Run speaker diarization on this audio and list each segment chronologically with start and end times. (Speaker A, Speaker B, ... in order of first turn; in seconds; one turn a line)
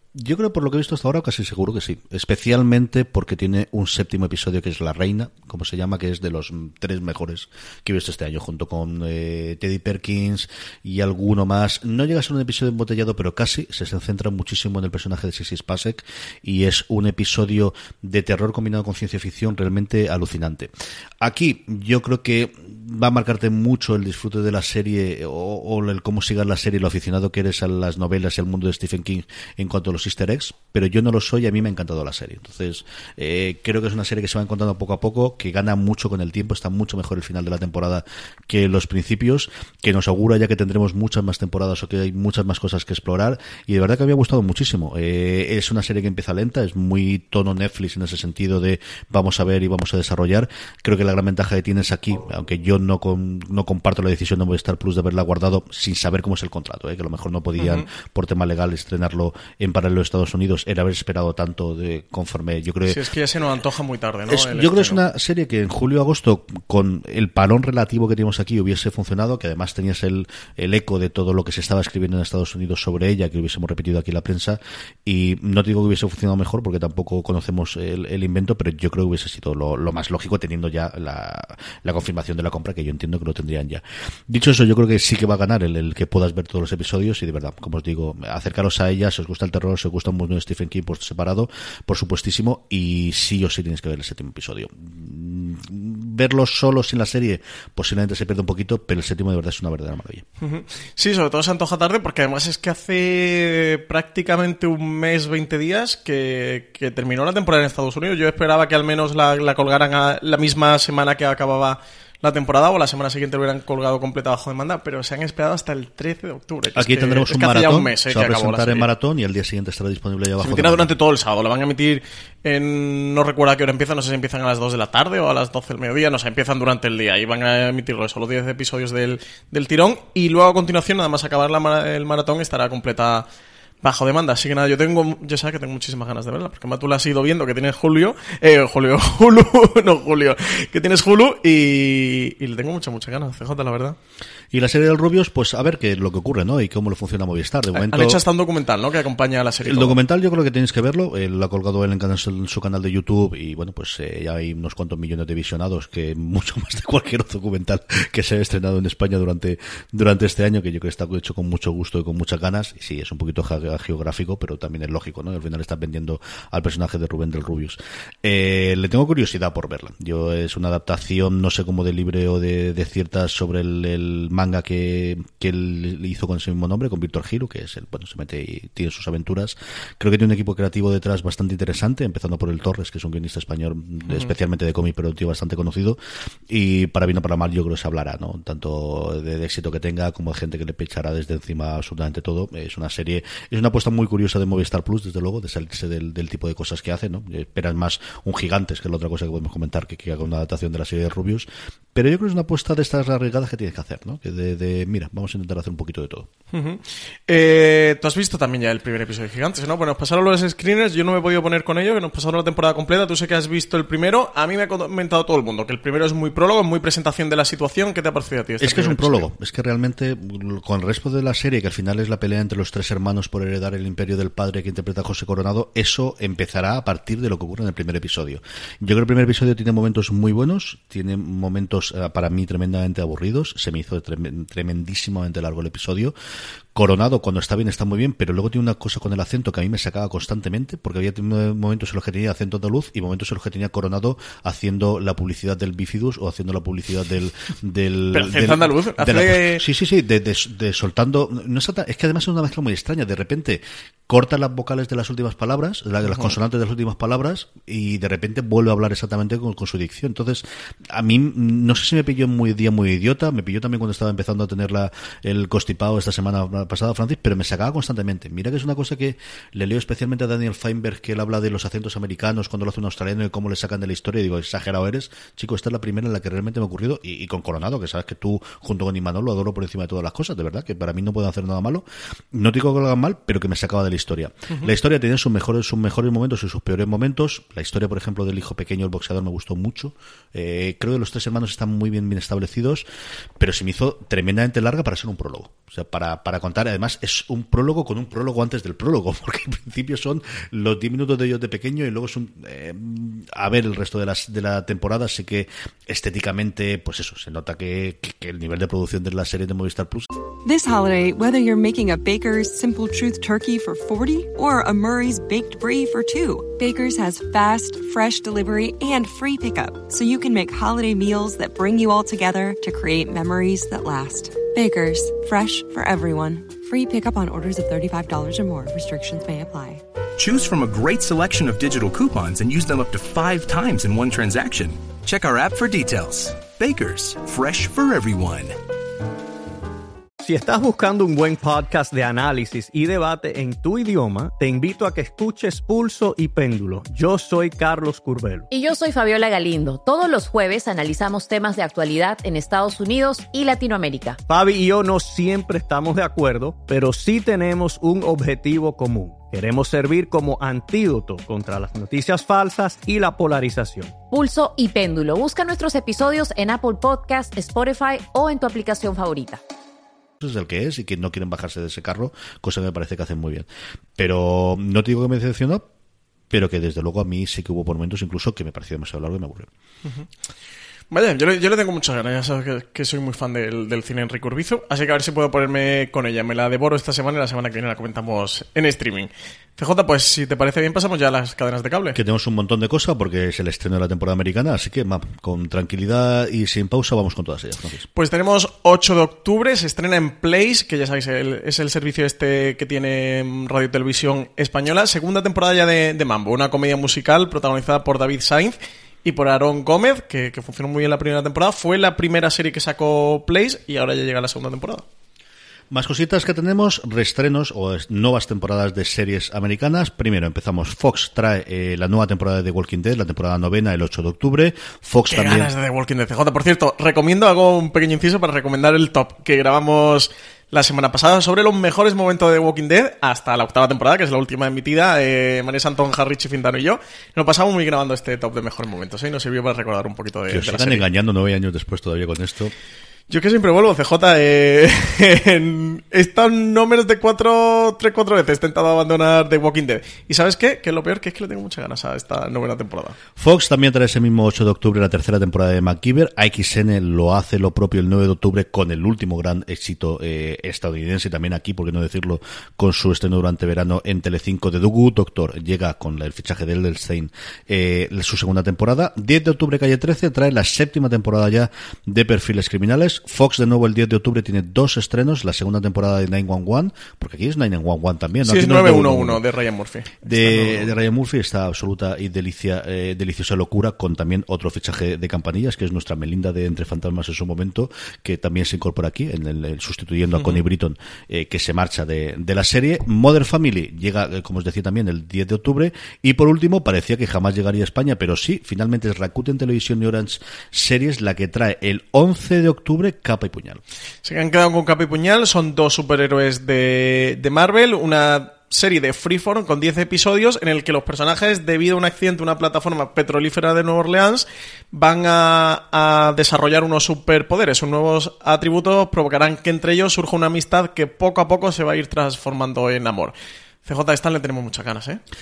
Speaker A: 0.1-63.0
Speaker B: 57.6-57.9
Speaker B: 62.9-65.0
Speaker A: 64.3-100.2
Speaker B: 100.4-118.9
Speaker A: 116.7-120.9
Speaker B: 120.4-133.2
Speaker B: 133.8-144.0
Speaker A: 144.5-148.2
Speaker B: 147.7-150.0
Speaker A: 149.6-186.0
Speaker A: 186.5-206.3
Speaker B: 206.5-219.2
Speaker A: 218.6-236.1
Speaker A: 236.7-292.8
Speaker B: 248.1-249.6
Speaker B: 256.1-256.3
Speaker A: 293.4-310.1
Speaker C: 310.4-329.8
Speaker D: 330.2-338.6
Speaker E: 340.2-348.5
Speaker F: 348.5-354.2
Speaker E: 354.3-363.9
Speaker F: 364.1-369.4
Speaker A: 370.2-375.6
Speaker A: 376.3-379.5
Speaker B: 380.9-392.0
Speaker A: 391.9-397.9
Speaker B: 397.9-414.8
Speaker A: 415.7-425.5
Speaker B: 425.1-440.8
Speaker A: 440.3-442.5
Speaker B: 443.1-453.0
Speaker A: 453.2-479.2
Speaker B: 478.2-480.7
Speaker A: 480.0-503.6
Speaker B: 490.2-490.4
Speaker B: 504.0-525.0